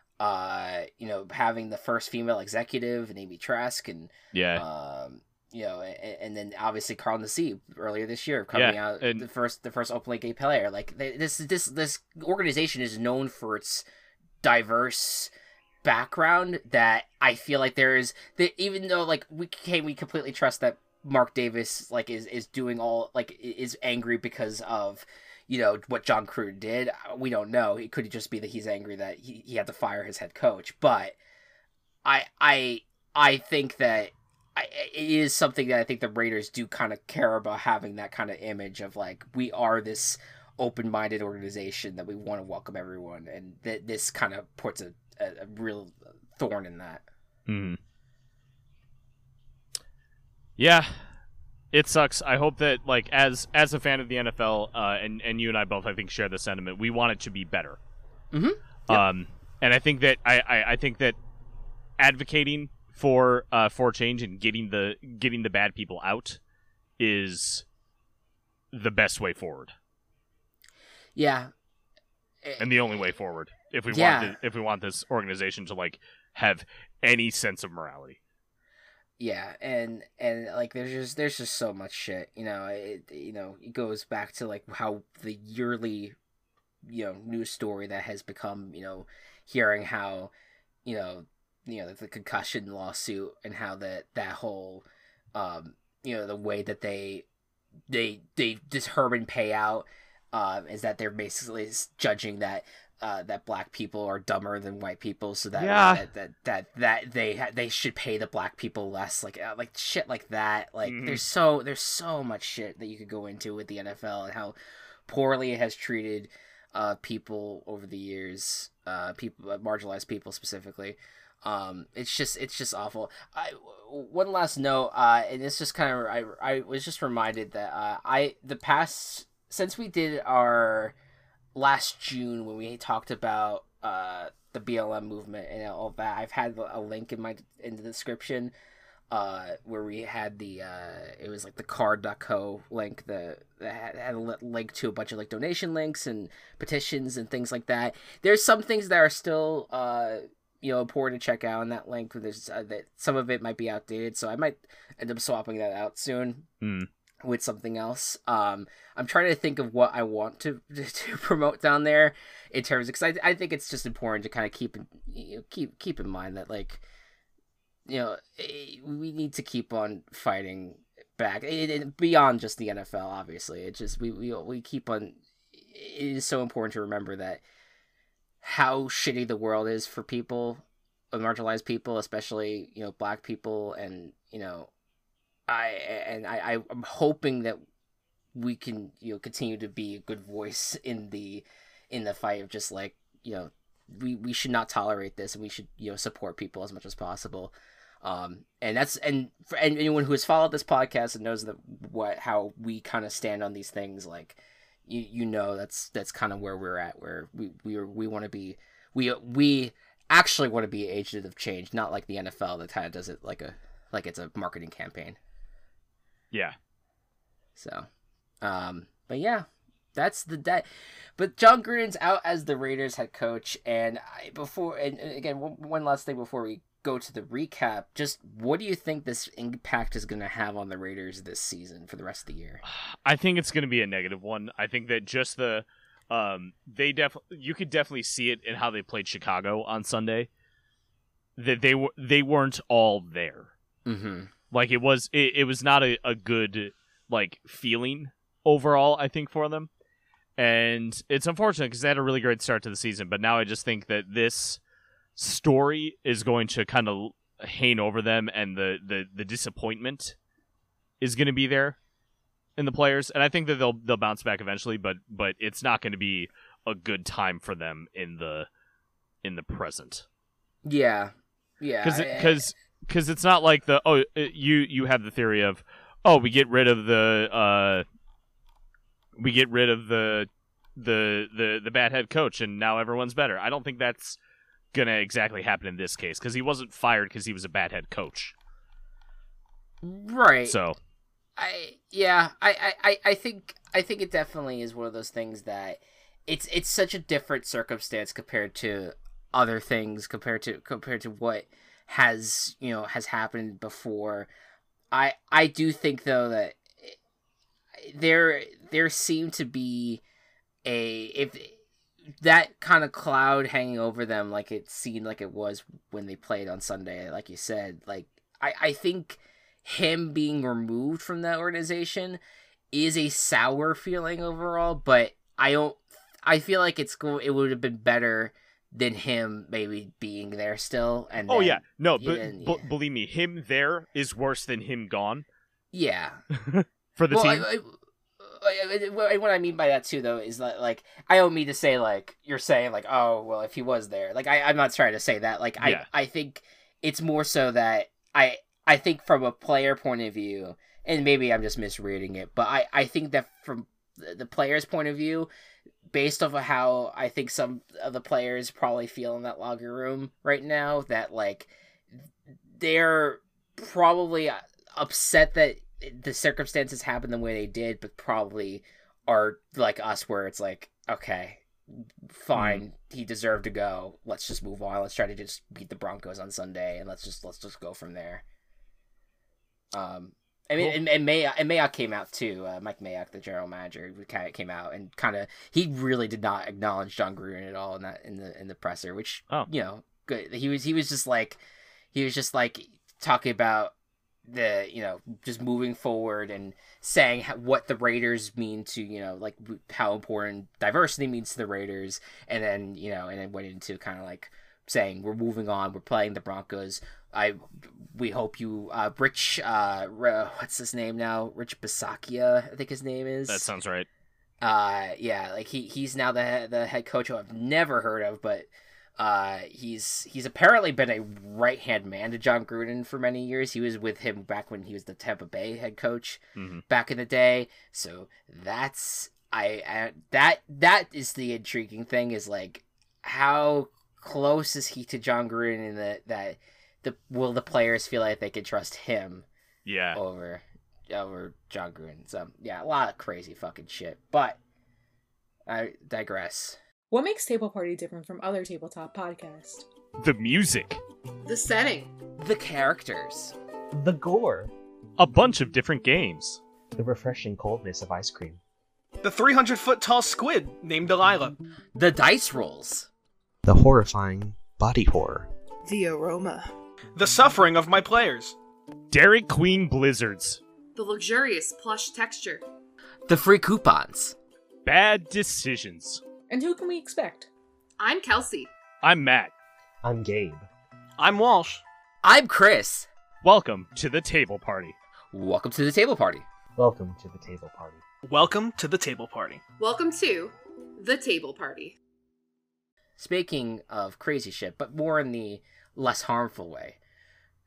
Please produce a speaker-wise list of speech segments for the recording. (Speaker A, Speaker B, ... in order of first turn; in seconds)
Speaker A: 0.2-13.9, 14.4-15.3, 15.8-31.2, 32.0-47.0, 58.3-59.0, 71.2-71.5, 72.4-72.7, 73.9-74.4, 79.2-86.2, 86.8-90.3, 90.8-97.3, 97.9-114.6, 115.1-130.9, 131.6-138.5, 139.1-156.5, 157.2-166.8, 167.9-177.4, 178.4-184.7, 185.5-187.6, 188.3-215.2, 217.6-217.9, 218.4-232.6, 243.8-244.3, 270.6-272.5, 289.8-290.6, 291.4-304.3, 304.9-307.0, 307.8-310.0, 310.6-311.6, 312.2-322.2, 322.7-332.7, 335.7-336.2, 337.1-355.3, 355.9-361.5, 362.5-378.2, 379.7-391.4, 391.9-393.7, 394.3-413.5, 414.4-439.3, 439.9-444.4, 445.5-446.6, 452.2-453.4, 461.8-462.9, 473.1-474.2, 482.0-482.9, 485.1-486.2, 493.0-496.8
Speaker B: 4.3-4.6, 8.5-9.3, 47.5-47.8, 50.6-51.1, 51.7-57.8, 58.9-61.2, 62.0-66.4, 67.0-67.7, 68.7-69.7, 72.6-78.2, 105.5-106.0, 110.8-111.2, 156.6-156.9, 232.7-240.3, 241.4-243.5, 244.5-249.7, 250.4-254.6, 255.2-260.2, 261.0-261.8, 262.6-268.5, 269.2-270.1, 271.8-277.9, 279.2-284.2, 284.7-288.4, 290.5-290.8, 331.3-335.3, 336.3-337.5, 345.6-345.9, 372.4-372.6, 413.3-413.9, 426.4-426.6, 439.6-440.0, 450.0-450.8, 455.0-456.4, 468.9-470.4, 474.6-476.0, 478.8-479.3, 483.2-484.8
Speaker C: 446.9-449.7, 476.3-477.3
Speaker D: 451.2-451.9, 465.7-466.5, 470.8-472.4, 477.8-478.5, 489.6-491.8
Speaker E: 453.7-454.5, 456.8-458.4, 463.4-465.3, 479.8-480.5, 486.6-487.8
Speaker F: 459.0-461.4, 467.0-468.4, 481.0-481.6, 488.1-489.4